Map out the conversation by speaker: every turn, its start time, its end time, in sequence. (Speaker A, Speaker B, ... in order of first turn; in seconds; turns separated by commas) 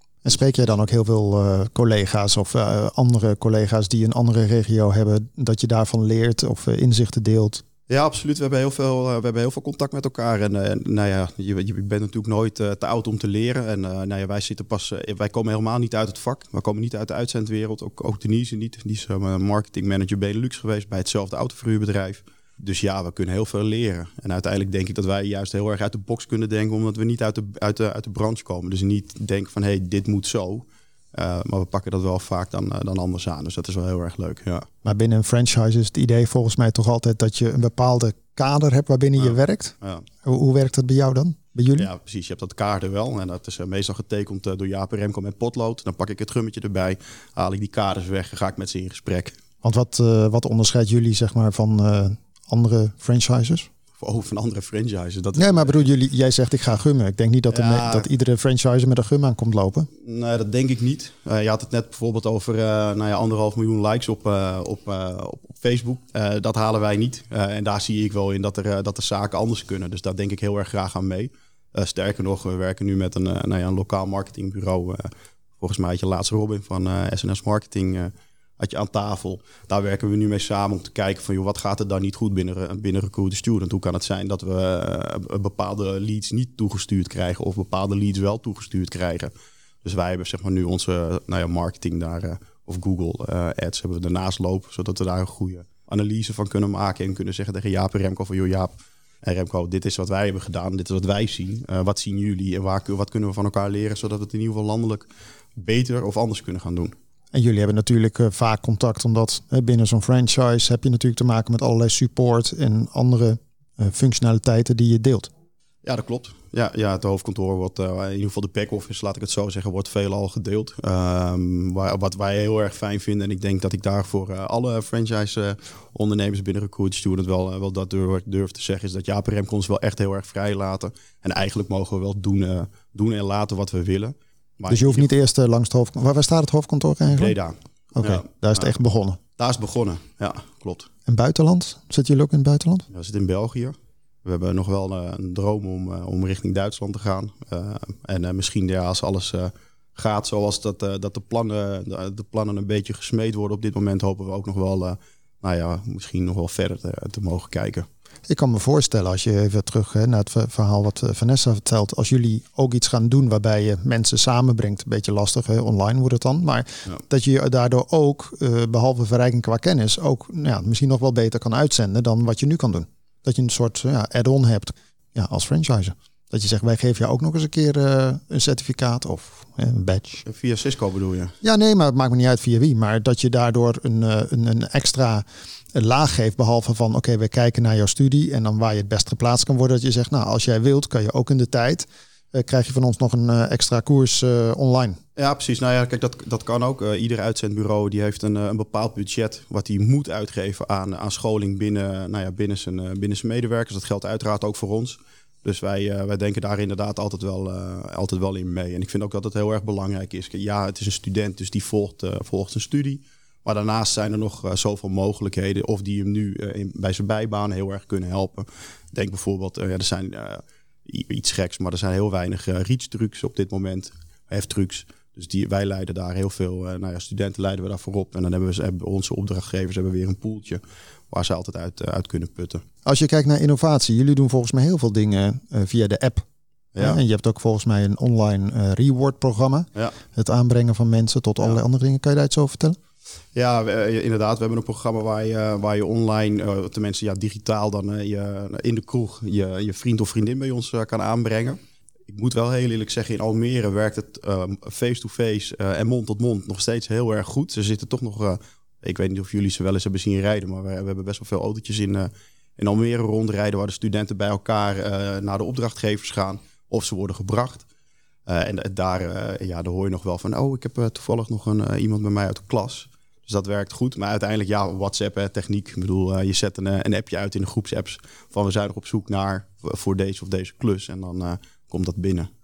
Speaker A: 0.2-7.6, Speaker B: 7.9-34.7, Speaker A: 34.8-41.9, Speaker B: 39.2-40.0, Speaker B: 41.8-49.4, Speaker A: 49.6-53.7, Speaker B: 54.0-55.9, Speaker A: 55.4-59.9, Speaker B: 57.5-58.1, Speaker B: 60.0-89.3, Speaker B: 89.8-107.0, Speaker A: 107.3-115.3, Speaker B: 115.8-135.1, Speaker A: 134.7-137.4, Speaker B: 137.1-138.8, Speaker A: 138.0-139.2, Speaker B: 139.4-140.9, Speaker A: 141.1-142.9, Speaker B: 142.9-157.9, Speaker A: 158.3-180.3, Speaker B: 180.3-181.4, Speaker A: 181.4-195.0, Speaker B: 195.2-232.6, Speaker A: 232.8-236.2, Speaker B: 236.8-237.0, Speaker A: 236.8-242.8, Speaker B: 243.3-267.6, Speaker B: 268.3-282.3